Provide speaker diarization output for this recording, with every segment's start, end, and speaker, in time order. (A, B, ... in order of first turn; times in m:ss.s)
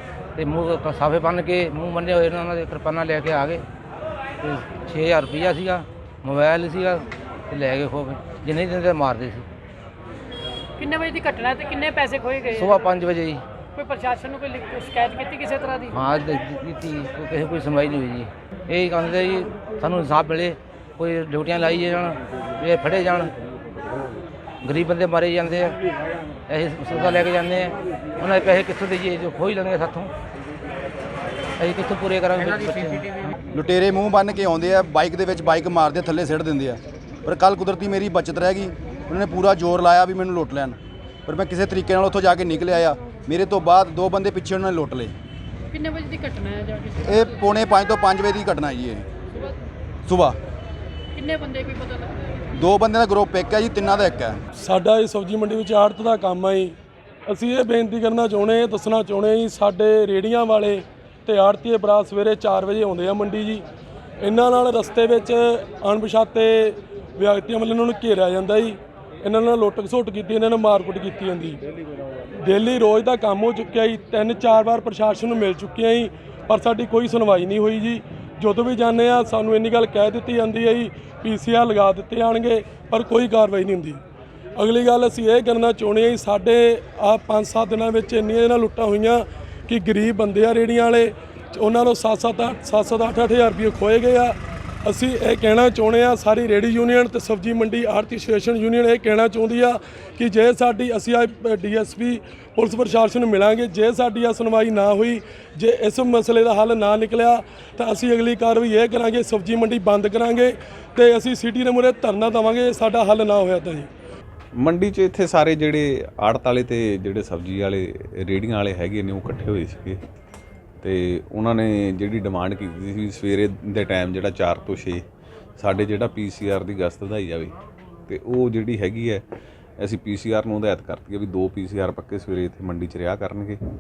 0:00.4-0:03.6 A
0:04.4-0:09.5 A
0:10.8-0:12.8 B
0:12.5-0:13.4 A
0:13.8-0:15.9 B
0:15.9-0:23.3 A
0:24.6-0:25.8 A
0:26.5-0:30.1 A
0:31.6-0:33.3 A
0:33.5-0:45.1 C
0:45.7-0:47.1 B
0:47.0-0:49.1 C
0:50.0-0:50.4 C
0:51.2-0:52.4 B
0:52.6-0:54.4 C
0:54.6-0:56.8 D
0:57.3-1:03.6 D
1:04.2-1:11.6 D
1:12.4-1:24.0 D
1:24.6-1:53.9 D
1:54.6-2:00.0 E
2:00.8-2:05.0 E
2:05.6-2:07.6 E
2:08.1-2:09.2 E
2:09.8-2:13.6 E